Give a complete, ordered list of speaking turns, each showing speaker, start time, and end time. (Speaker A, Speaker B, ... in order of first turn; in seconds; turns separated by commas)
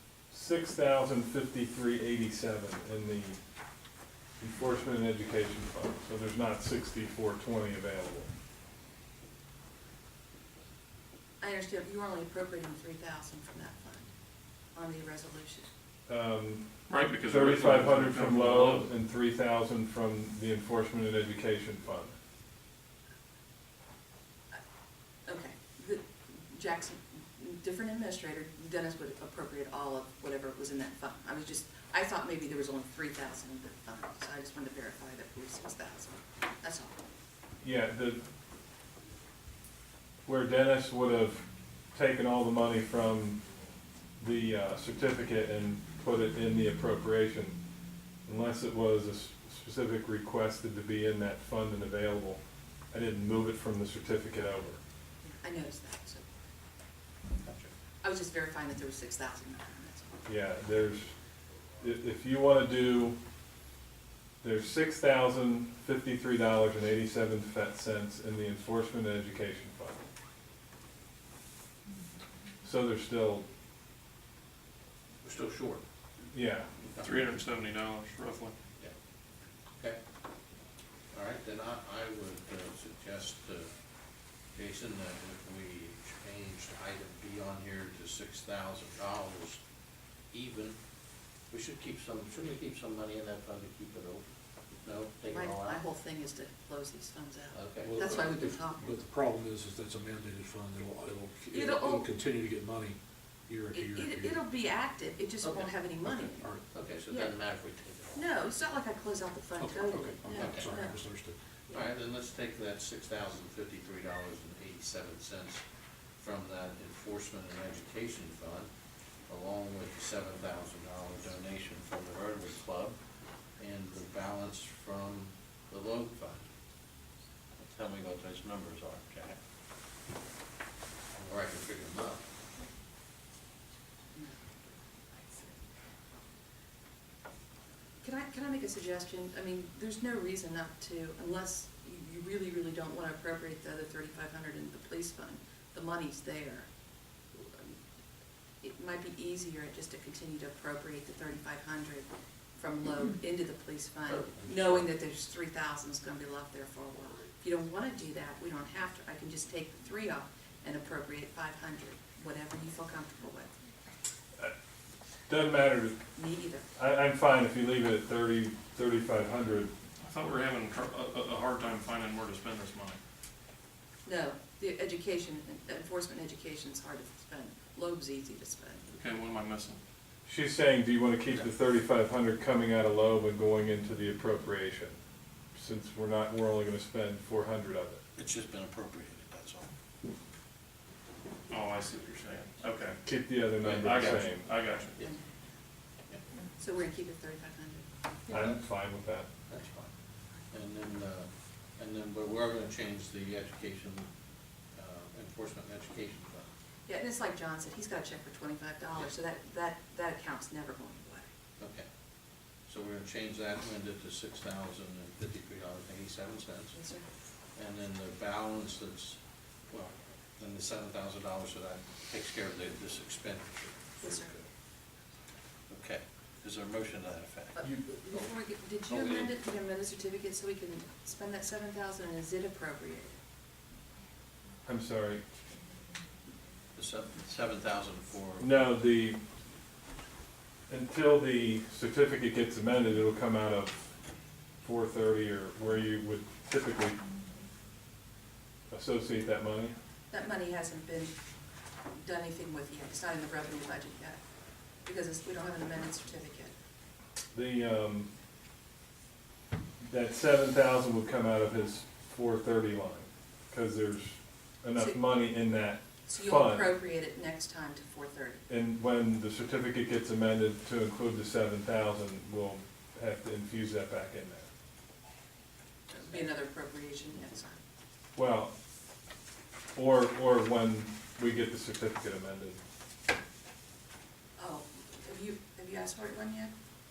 Speaker A: 0.3-3.4, Speaker A: 4.4-8.3, Speaker B: 11.4-14.1, Speaker B: 14.7-15.7, Speaker A: 16.1-16.6, Speaker C: 16.9-18.9, Speaker A: 17.2-22.1, Speaker B: 25.2-37.0, Speaker A: 37.6-38.2, Speaker A: 40.2-43.4, Speaker A: 44.2-47.6, Speaker A: 48.2-54.8, Speaker B: 55.2-56.3, Speaker D: 57.4-57.7, Speaker B: 58.0-60.3, Speaker A: 60.2-61.1, Speaker A: 61.8-63.2, Speaker A: 64.4-70.0, Speaker A: 72.6-73.4, Speaker D: 75.2-75.8, Speaker A: 76.3-76.7, Speaker C: 77.0-78.5, Speaker D: 81.1-83.7, Speaker D: 84.5-89.6, Speaker D: 90.3-90.8, Speaker D: 91.5-94.2, Speaker D: 94.8-95.8, Speaker B: 95.3-98.9, Speaker D: 97.5-97.9, Speaker E: 97.8-104.5, Speaker B: 101.5-102.1, Speaker B: 103.7-106.5, Speaker E: 105.9-106.6, Speaker D: 106.7-108.2, Speaker B: 107.1-107.3, Speaker B: 108.1-111.0, Speaker E: 109.6-111.4, Speaker D: 110.3-110.7, Speaker D: 111.7-115.6, Speaker D: 116.2-118.7, Speaker D: 119.3-123.0, Speaker D: 123.6-126.4, Speaker D: 127.6-129.4, Speaker D: 131.1-132.2, Speaker B: 134.1-134.4, Speaker B: 138.0-146.7, Speaker B: 147.3-147.8, Speaker B: 148.6-163.5, Speaker D: 154.2-154.8, Speaker A: 165.3-166.0, Speaker B: 166.2-166.7, Speaker A: 166.7-169.7, Speaker C: 170.0-173.0, Speaker B: 174.0-178.8, Speaker C: 178.9-179.8, Speaker A: 180.2-185.0, Speaker A: 185.5-188.0, Speaker D: 188.2-189.7, Speaker C: 191.5-193.0, Speaker A: 193.0-194.5, Speaker C: 193.6-195.0, Speaker D: 193.6-194.0, Speaker B: 195.0-195.2, Speaker B: 196.6-197.8, Speaker D: 198.3-198.6, Speaker A: 198.3-199.3, Speaker D: 199.5-199.9, Speaker D: 200.5-204.1, Speaker D: 204.7-206.5, Speaker B: 206.9-211.3, Speaker D: 211.6-211.9, Speaker D: 212.7-216.8, Speaker B: 216.7-217.1, Speaker D: 217.5-224.4, Speaker B: 224.0-224.3, Speaker D: 225.7-227.6, Speaker B: 227.6-233.1, Speaker D: 228.9-229.3, Speaker A: 234.6-235.2, Speaker D: 236.8-238.5, Speaker A: 238.4-239.2, Speaker A: 240.7-243.8, Speaker A: 244.6-247.0, Speaker A: 248.7-249.7, Speaker B: 250.1-251.1, Speaker B: 251.9-254.2, Speaker B: 254.8-256.5, Speaker A: 257.3-258.1, Speaker A: 259.8-266.7, Speaker B: 266.1-268.4, Speaker A: 268.5-274.5, Speaker B: 275.9-277.6, Speaker A: 278.1-278.5, Speaker A: 279.7-282.6, Speaker B: 284.4-286.5